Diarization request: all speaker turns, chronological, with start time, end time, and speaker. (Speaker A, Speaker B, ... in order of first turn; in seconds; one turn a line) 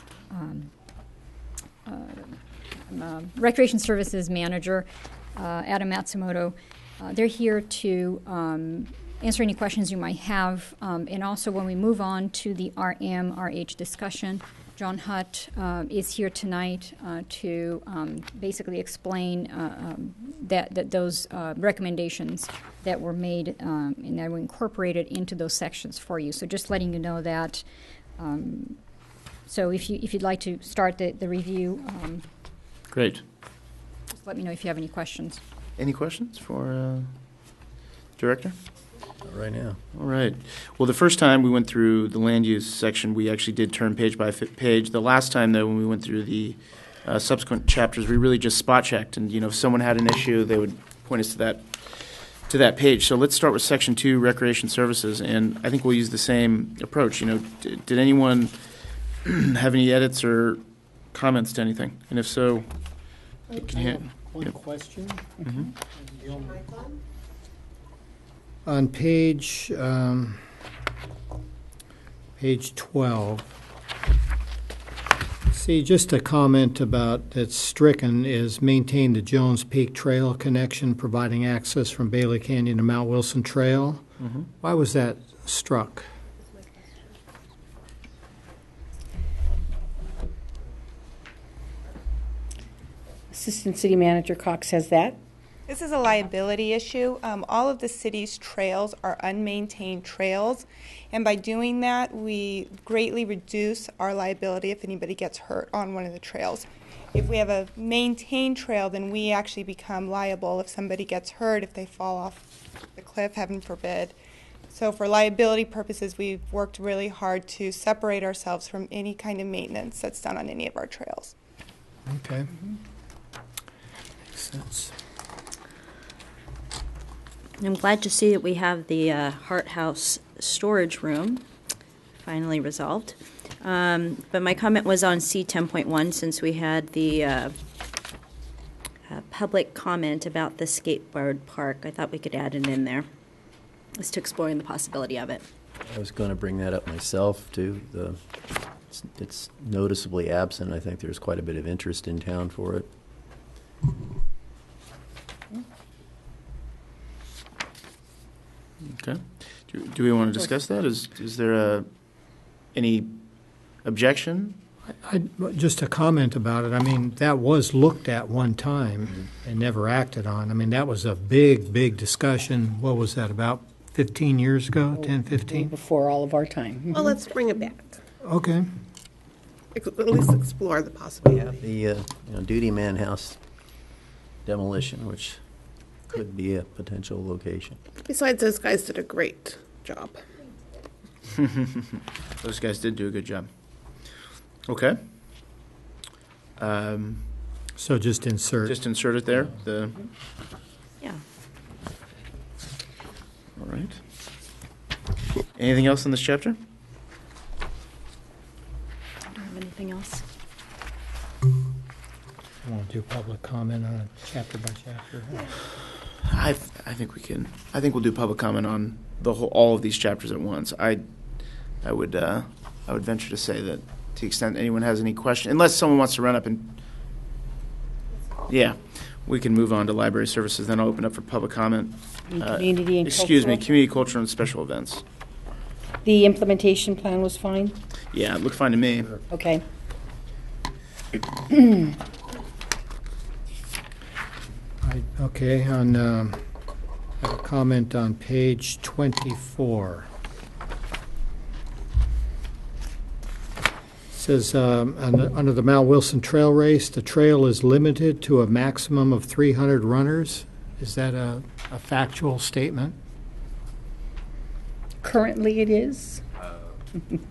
Speaker A: 0.3-0.7
Speaker A: 1.9-2.4
Speaker A: 2.9-27.6
Speaker A: 28.2-28.8
Speaker A: 29.5-32.2
Speaker B: 32.9-33.2
Speaker A: 34.2-35.4
Speaker B: 35.8-37.1
Speaker B: 38.2-38.5
Speaker C: 39.2-39.8
Speaker B: 40.0-51.7
Speaker B: 52.5-58.5
Speaker B: 59.2-60.6
Speaker B: 61.1-62.7
Speaker D: 63.5-65.4
Speaker B: 63.6-64.0
Speaker B: 65.4-65.7
Speaker D: 66.0-66.7
Speaker D: 68.7-70.4
Speaker D: 72.4-73.5
Speaker D: 75.5-84.0
Speaker D: 84.6-86.1
Speaker E: 93.3-95.2
Speaker F: 95.7-112.4
Speaker F: 113.0-114.2
Speaker F: 114.7-121.3
Speaker D: 122.1-122.5
Speaker D: 124.3-124.9
Speaker G: 127.6-131.4
Speaker G: 132.2-137.6
Speaker G: 139.1-143.1
Speaker G: 144.0-145.4
Speaker C: 145.9-148.2
Speaker C: 148.9-152.9
Speaker B: 158.9-161.9
Speaker B: 162.8-163.1
Speaker B: 163.8-164.6
Speaker D: 165.0-175.7
Speaker E: 174.9-177.2
Speaker H: 177.2-177.9
Speaker D: 178.2-178.7
Speaker H: 179.8-181.6
Speaker C: 181.6-183.4
Speaker C: 184.5-185.4
Speaker C: 186.1-187.8
Speaker H: 188.1-190.2
Speaker B: 191.3-193.5
Speaker B: 194.7-195.0
Speaker B: 196.6-197.2
Speaker D: 197.8-198.8
Speaker B: 198.7-200.0
Speaker B: 203.6-204.0
Speaker B: 205.6-206.6
Speaker G: 209.3-210.2
Speaker D: 212.6-215.5
Speaker B: 216.3-221.0
Speaker B: 221.8-226.8
Speaker B: 228.5-235.0
Speaker E: 232.3-233.6
Speaker E: 236.0-237.8
Speaker B: 238.1-239.1
Speaker E: 239.3-239.6
Speaker D: 244.8-246.4
Speaker D: 247.2-250.1
Speaker D: 254.1-262.9
Speaker E: 265.0-266.2